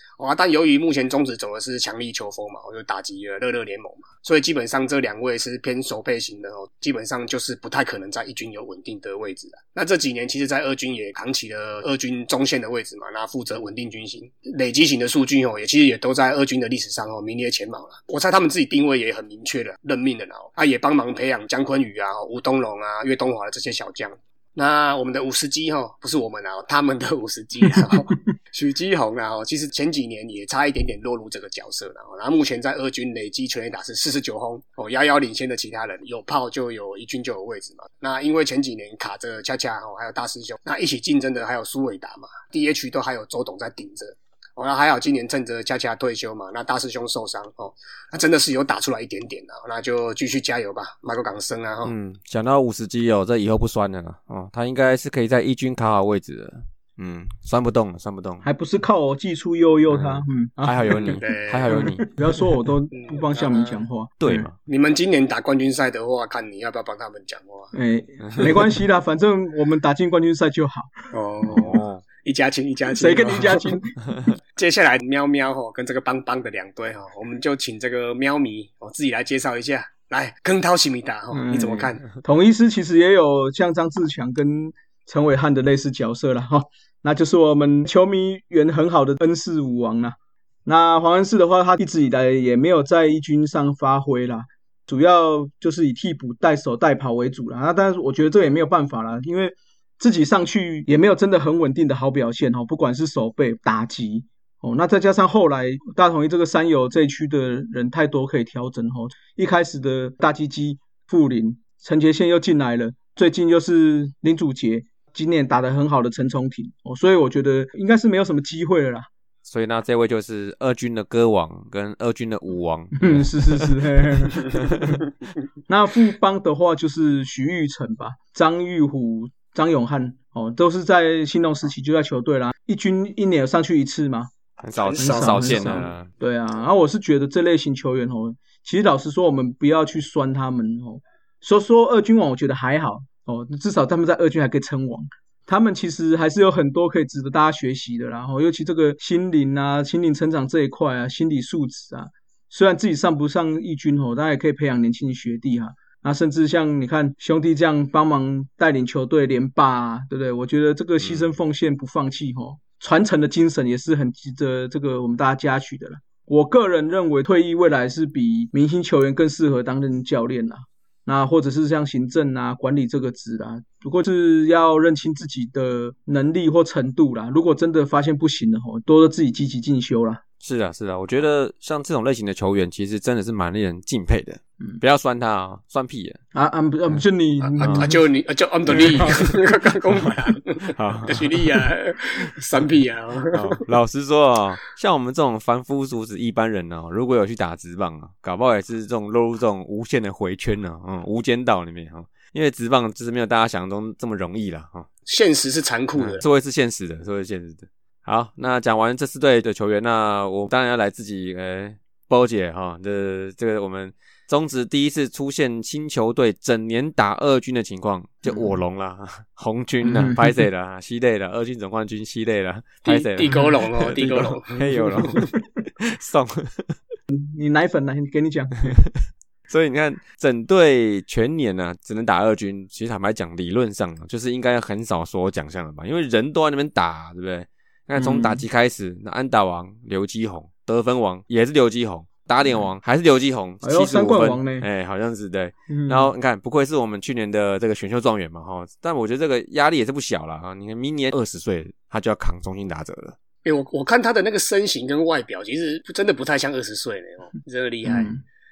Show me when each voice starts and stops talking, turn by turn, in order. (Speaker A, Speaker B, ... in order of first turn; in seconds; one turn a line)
Speaker A: 0.2-51.9
Speaker B: 51.8-58.5
Speaker C: 58.4-61.2
Speaker B: 59.9-62.2
Speaker A: 61.1-61.7
Speaker C: 61.7-64.5
Speaker A: 62.9-63.8
Speaker B: 64.2-64.5
Speaker A: 64.7-67.7
Speaker C: 67.7-71.8
Speaker B: 68.2-68.5
Speaker A: 71.1-73.8
Speaker C: 72.9-74.3
Speaker A: 74.5-82.0
Speaker C: 81.3-119.0
Speaker B: 119.5-125.0
Speaker C: 123.0-125.0
Speaker C: 125.7-134.3
Speaker B: 134.6-136.1
Speaker C: 134.9-180.2
Speaker A: 134.9-135.4
Speaker B: 161.0-161.3
Speaker B: 180.4-186.2
Speaker C: 186.3-187.9
Speaker A: 187.4-193.6
Speaker B: 187.6-187.9
Speaker B: 188.8-189.1
Speaker B: 190.7-191.6
Speaker B: 193.3-204.9
Speaker A: 205.1-206.2
Speaker B: 206.0-226.7
Speaker C: 218.2-218.5
Speaker C: 219.8-220.4
Speaker A: 222.8-225.3
Speaker C: 227.1-228.8
Speaker B: 229.5-253.2
Speaker C: 238.0-238.4
Speaker C: 243.6-244.7
Speaker C: 245.7-246.1
Speaker A: 253.4-258.2
Speaker C: 257.8-258.2